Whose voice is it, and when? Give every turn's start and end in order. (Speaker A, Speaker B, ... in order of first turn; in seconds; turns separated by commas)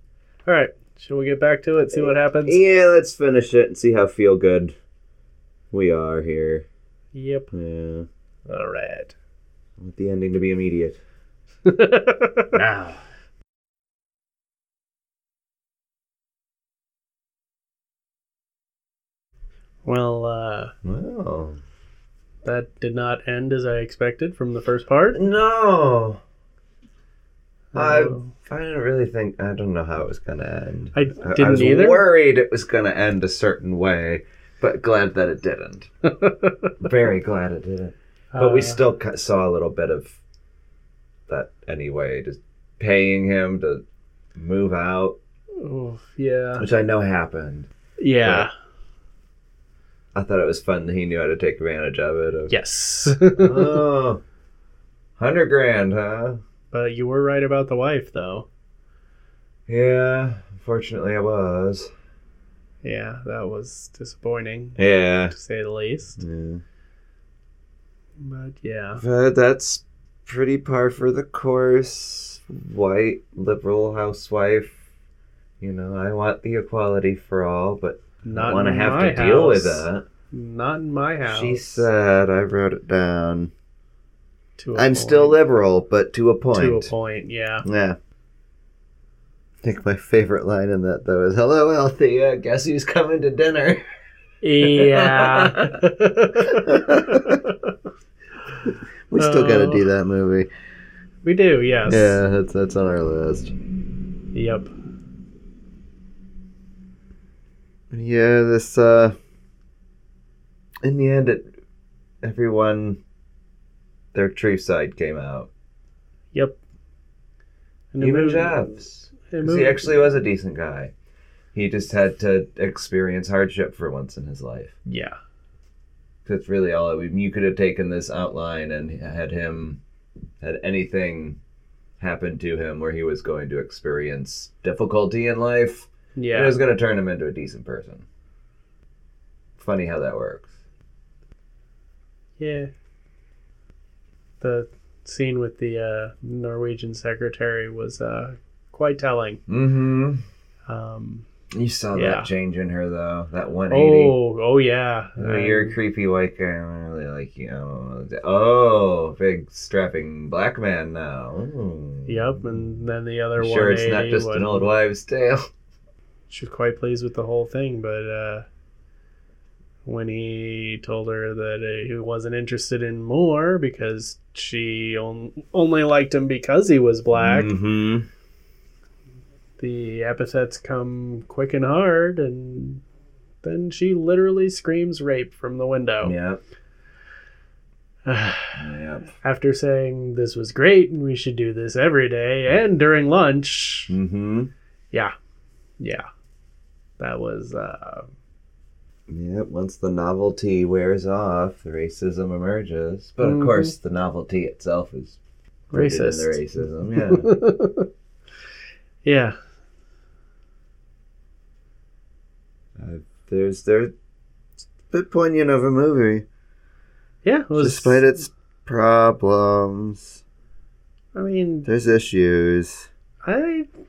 Speaker A: 0.5-2.6, Speaker B: 1.9-4.7, Speaker B: 5.7-6.7, Speaker A: 7.1-7.5, Speaker B: 7.5-8.1, Speaker A: 8.5-9.1, Speaker B: 9.8-11.0, Speaker A: 11.6-12.6, Speaker B: 12.5-13.0, Speaker A: 19.8-20.7, Speaker B: 20.8-21.6, Speaker A: 22.4-25.2, Speaker B: 25.1-26.2, Speaker A: 27.7-28.3, Speaker B: 27.7-35.9, Speaker A: 30.9-32.0, Speaker A: 36.0-36.7, Speaker B: 36.8-40.2, Speaker A: 38.3-38.8, Speaker B: 41.3-43.8, Speaker B: 44.4-45.2, Speaker A: 45.6-46.7, Speaker B: 46.6-47.7, Speaker A: 48.0-48.5, Speaker B: 50.1-52.5, Speaker A: 52.5-53.8, Speaker B: 53.3-54.2, Speaker B: 55.2-56.4, Speaker A: 56.7-58.5, Speaker B: 59.7-61.9, Speaker A: 62.8-64.8, Speaker B: 64.8-65.3, Speaker A: 65.3-66.2, Speaker B: 66.2-66.6, Speaker A: 68.2-69.0, Speaker B: 69.0-74.8, Speaker B: 75.6-80.0, Speaker A: 78.2-81.9, Speaker B: 81.2-83.5, Speaker A: 84.6-85.4, Speaker B: 84.7-86.9, Speaker A: 86.5-87.6, Speaker B: 87.6-88.0, Speaker B: 89.6-93.8, Speaker A: 94.4-97.7, Speaker B: 94.5-95.8, Speaker B: 96.4-97.4, Speaker B: 98.7-100.5, Speaker A: 99.2-99.9, Speaker A: 101.2-102.2, Speaker B: 101.9-103.5, Speaker A: 104.3-104.7, Speaker B: 107.9-109.1, Speaker B: 110.8-111.5, Speaker B: 112.2-113.0, Speaker B: 114.1-115.5, Speaker A: 117.9-118.7, Speaker B: 118.0-120.9, Speaker A: 119.2-119.9, Speaker B: 121.5-124.7, Speaker A: 124.8-125.2, Speaker B: 126.2-129.8, Speaker B: 130.4-131.4, Speaker B: 132.0-138.0, Speaker A: 136.2-136.5, Speaker B: 139.6-140.5, Speaker A: 142.4-142.7, Speaker A: 144.4-149.4, Speaker B: 149.5-150.2, Speaker A: 150.7-151.2, Speaker B: 151.5-154.1, Speaker A: 151.9-152.3, Speaker A: 153.7-155.8, Speaker B: 155.2-162.7, Speaker A: 162.1-164.7, Speaker B: 163.4-165.5, Speaker A: 166.3-168.4, Speaker A: 169.8-177.5, Speaker B: 177.1-178.1, Speaker A: 179.6-182.8, Speaker A: 183.4-186.1, Speaker B: 186.0-186.4, Speaker A: 188.0-188.6, Speaker B: 188.6-189.1, Speaker A: 189.2-193.9, Speaker B: 193.9-194.5, Speaker A: 195.8-196.0, Speaker A: 197.0-198.1, Speaker B: 199.1-205.2, Speaker A: 203.2-203.7, Speaker A: 205.7-206.4, Speaker B: 205.7-207.3, Speaker A: 206.9-207.9, Speaker A: 209.0-209.3, Speaker B: 212.8-213.9, Speaker B: 214.9-216.2, Speaker A: 217.2-218.0, Speaker B: 217.6-220.2, Speaker A: 221.1-221.7, Speaker B: 221.7-222.9, Speaker A: 223.2-223.7